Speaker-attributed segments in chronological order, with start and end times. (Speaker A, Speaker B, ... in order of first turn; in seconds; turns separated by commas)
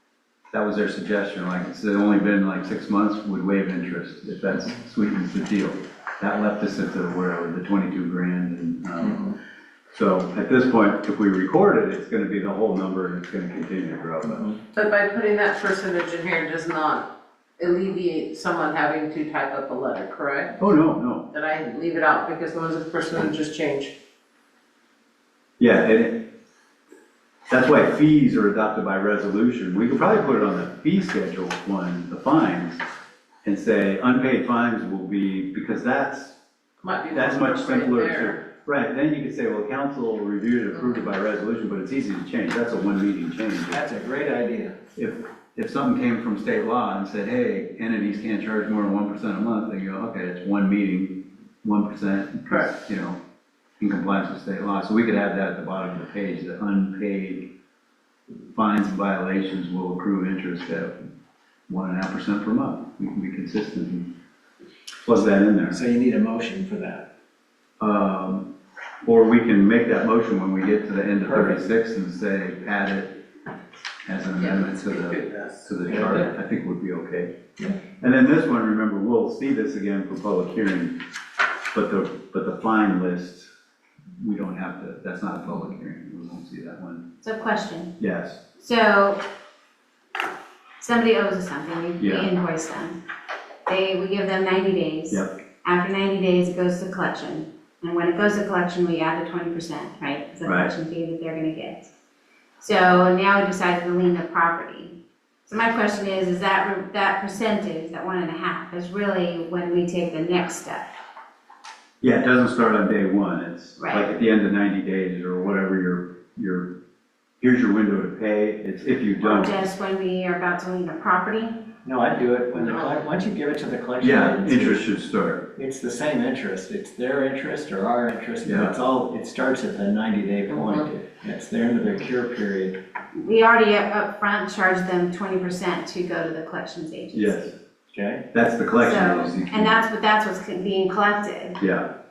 Speaker A: 0.5-9.3, Speaker A: 9.9-14.5, Speaker B: 14.7-17.1, Speaker B: 17.6-20.6, Speaker A: 20.6-21.3, Speaker B: 21.3-23.9, Speaker A: 25.6-26.3, Speaker A: 27.5-32.8, Speaker A: 33.5-36.4, Speaker B: 36.8-38.4, Speaker A: 37.1-43.8, Speaker C: 43.7-44.8, Speaker A: 45.0-53.2, Speaker A: 53.8-57.5, Speaker A: 58.5-61.0, Speaker A: 61.7-64.1, Speaker A: 65.0-65.8, Speaker C: 65.7-67.0, Speaker A: 67.8-68.5, Speaker A: 69.0-73.2, Speaker C: 71.2-71.6, Speaker A: 74.0-77.3, Speaker B: 74.4-75.7, Speaker C: 75.9-76.2, Speaker A: 78.0-81.0, Speaker A: 81.7-83.5, Speaker A: 84.2-87.1, Speaker D: 87.2-88.0, Speaker A: 88.0-88.4, Speaker D: 88.6-89.2, Speaker D: 90.8-93.0, Speaker A: 92.0-92.3, Speaker D: 93.7-101.9, Speaker A: 95.1-95.4, Speaker A: 100.5-100.7, Speaker D: 102.6-110.9, Speaker A: 112.0-116.8, Speaker D: 113.8-114.1, Speaker A: 117.4-119.7, Speaker D: 119.2-121.7, Speaker C: 121.8-124.9, Speaker A: 124.0-125.5, Speaker C: 125.6-132.8, Speaker A: 128.4-128.8, Speaker D: 133.1-137.5, Speaker A: 137.1-137.5, Speaker C: 137.9-138.2, Speaker A: 138.3-139.8, Speaker D: 138.8-141.6, Speaker A: 141.6-141.8